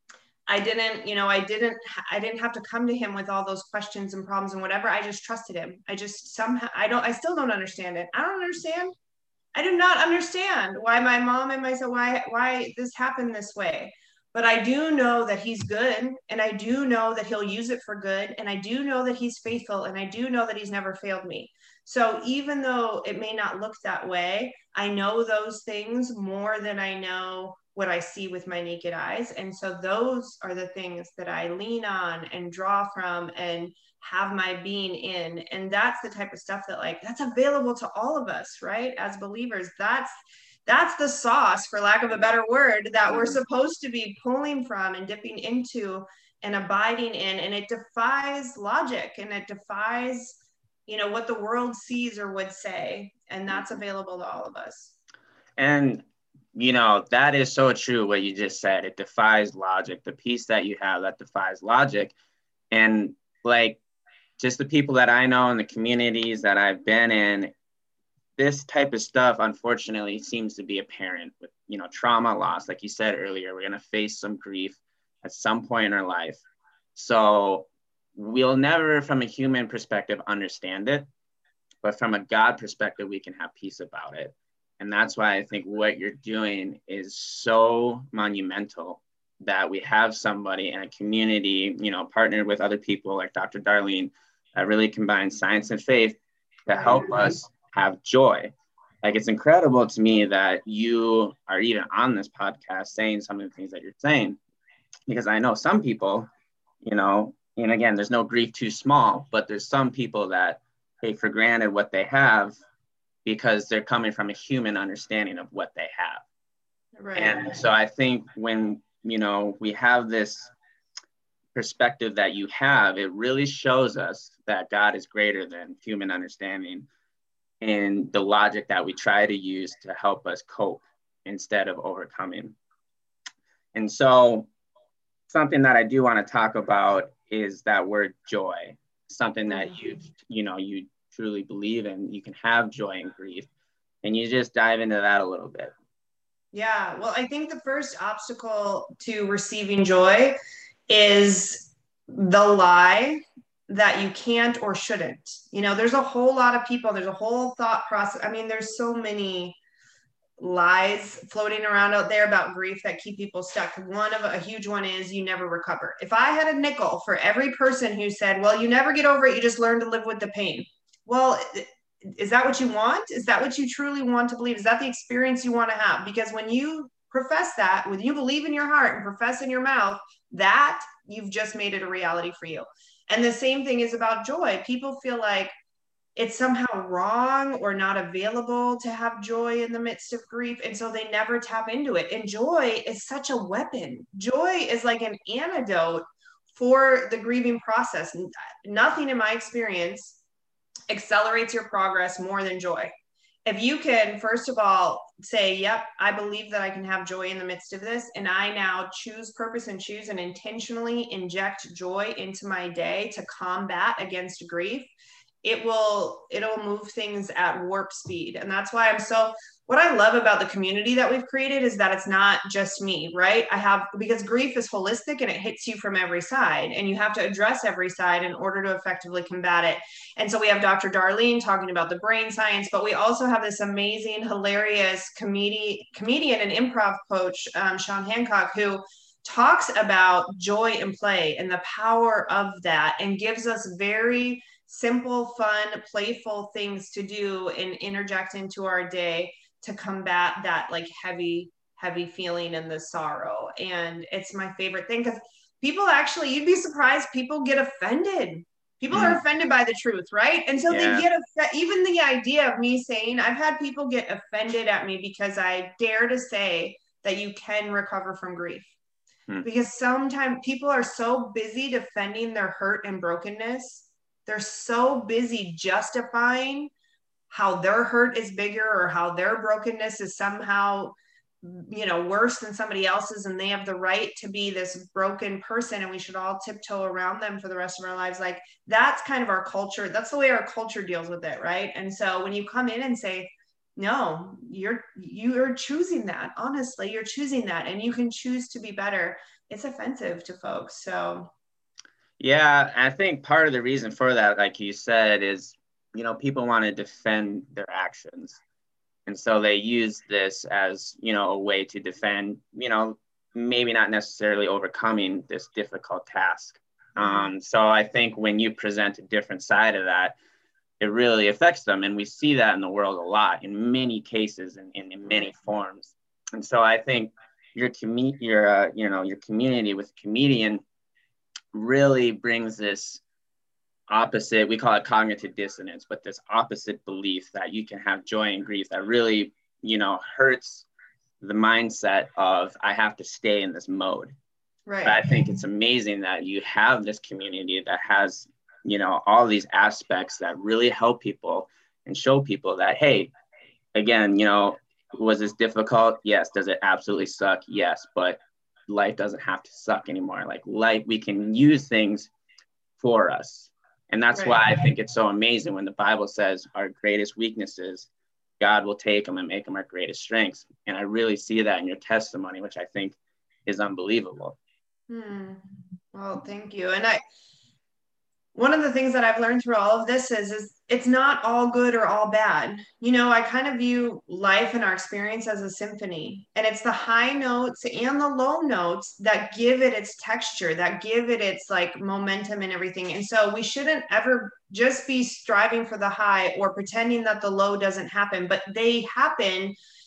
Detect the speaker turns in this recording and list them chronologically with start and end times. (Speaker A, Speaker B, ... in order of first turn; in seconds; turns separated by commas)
Speaker A: 0.5-8.9, Speaker A: 9.6-40.1, Speaker A: 40.7-55.0, Speaker B: 43.1-43.4, Speaker B: 55.6-62.1, Speaker B: 62.7-63.8, Speaker B: 64.4-67.5, Speaker B: 68.4-76.4, Speaker B: 77.0-81.1, Speaker B: 81.8-104.4, Speaker A: 96.7-97.4, Speaker B: 105.1-106.3, Speaker B: 106.8-112.6, Speaker B: 113.2-116.2, Speaker A: 117.0-117.5, Speaker B: 117.2-120.5, Speaker B: 121.5-126.9, Speaker B: 127.6-132.6, Speaker B: 133.7-134.5, Speaker B: 135.3-143.5, Speaker A: 139.5-139.8, Speaker B: 144.0-145.7, Speaker A: 146.5-150.3, Speaker A: 150.9-159.6, Speaker A: 160.4-185.5, Speaker A: 186.2-200.2, Speaker A: 200.9-202.9, Speaker A: 203.5-214.9, Speaker A: 215.4-268.7, Speaker B: 258.9-259.2, Speaker B: 260.7-261.1, Speaker A: 269.4-276.7, Speaker A: 277.3-301.3, Speaker B: 302.2-308.4, Speaker B: 309.1-320.2, Speaker A: 317.0-317.3, Speaker B: 320.8-330.6, Speaker A: 325.1-325.3, Speaker B: 331.5-333.0, Speaker B: 333.9-340.7, Speaker B: 341.2-344.1, Speaker A: 344.7-345.0, Speaker B: 344.9-353.1, Speaker B: 353.8-362.1, Speaker B: 362.8-367.9, Speaker A: 364.1-364.5, Speaker B: 368.4-374.4, Speaker A: 374.9-377.0, Speaker A: 378.4-399.6